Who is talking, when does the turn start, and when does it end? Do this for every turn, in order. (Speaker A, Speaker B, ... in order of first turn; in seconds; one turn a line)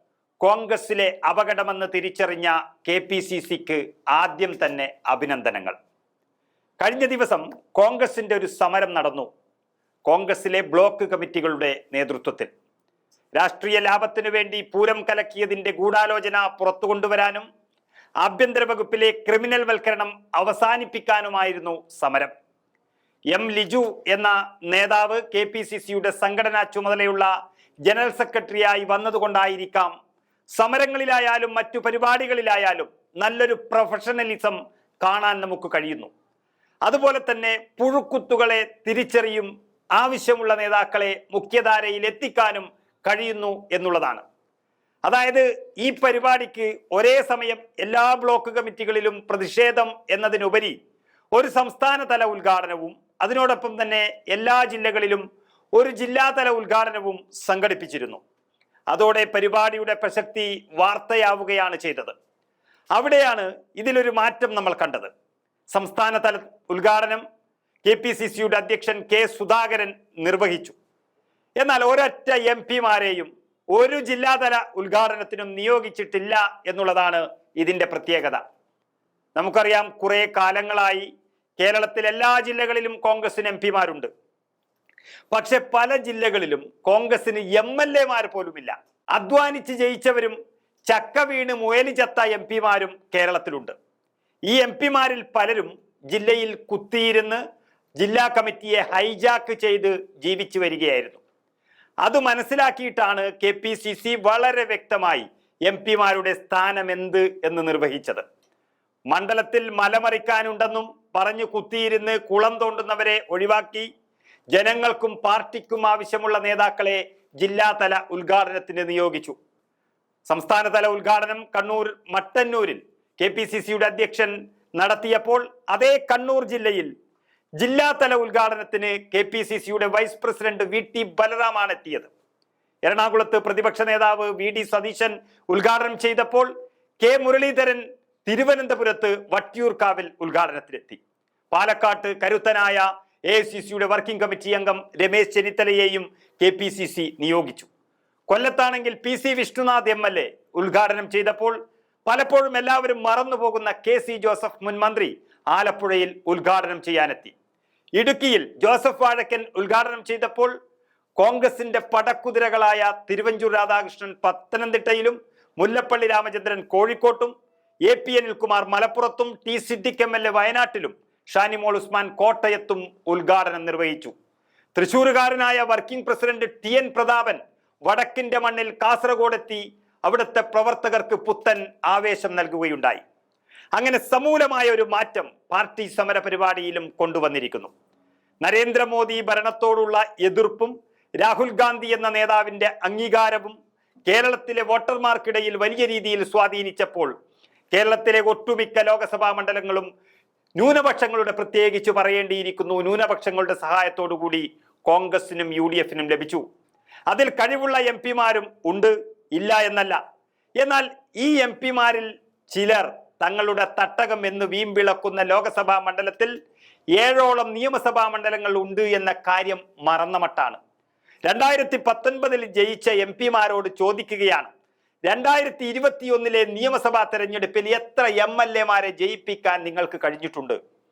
Speaker A: 0.4-5.7
Speaker A: 6.8-9.3
Speaker A: 10.1-12.5
Speaker A: 13.3-17.4
Speaker A: 18.2-22.3
Speaker A: 23.3-27.3
Speaker A: 27.9-29.9
Speaker A: 30.5-36.1
Speaker A: 36.8-44.2
Speaker A: 45.0-50.8
Speaker A: 51.3-55.2
Speaker A: 55.7-58.2
Speaker A: 58.9-62.1
Speaker A: 62.9-65.1
Speaker A: 65.7-67.2
Speaker A: 67.8-70.7
Speaker A: 71.6-78.4
Speaker A: 79.3-81.1
Speaker A: 81.6-84.1
Speaker A: 85.3-93.7
Speaker A: 94.5-97.4
Speaker A: 98.0-101.2
Speaker A: 102.0-108.2
Speaker A: 109.1-113.9
Speaker A: 114.5-119.4
Speaker A: 120.2-126.9
Speaker A: 127.6-132.1
Speaker A: 132.8-136.5
Speaker A: 137.0-141.0
Speaker A: 141.5-147.7
Speaker A: 148.3-157.3
Speaker A: 157.9-160.5
Speaker A: 161.2-167.3
Speaker A: 167.8-174.1
Speaker A: 174.7-183.0
Speaker A: 183.7-187.7
Speaker A: 188.4-193.5
Speaker A: 194.1-197.1
Speaker A: 197.7-199.9
Speaker A: 200.6-206.4
Speaker A: 207.1-210.0
Speaker A: 210.6-216.3
Speaker A: 216.9-220.6
Speaker A: 221.2-224.5
Speaker A: 225.1-230.6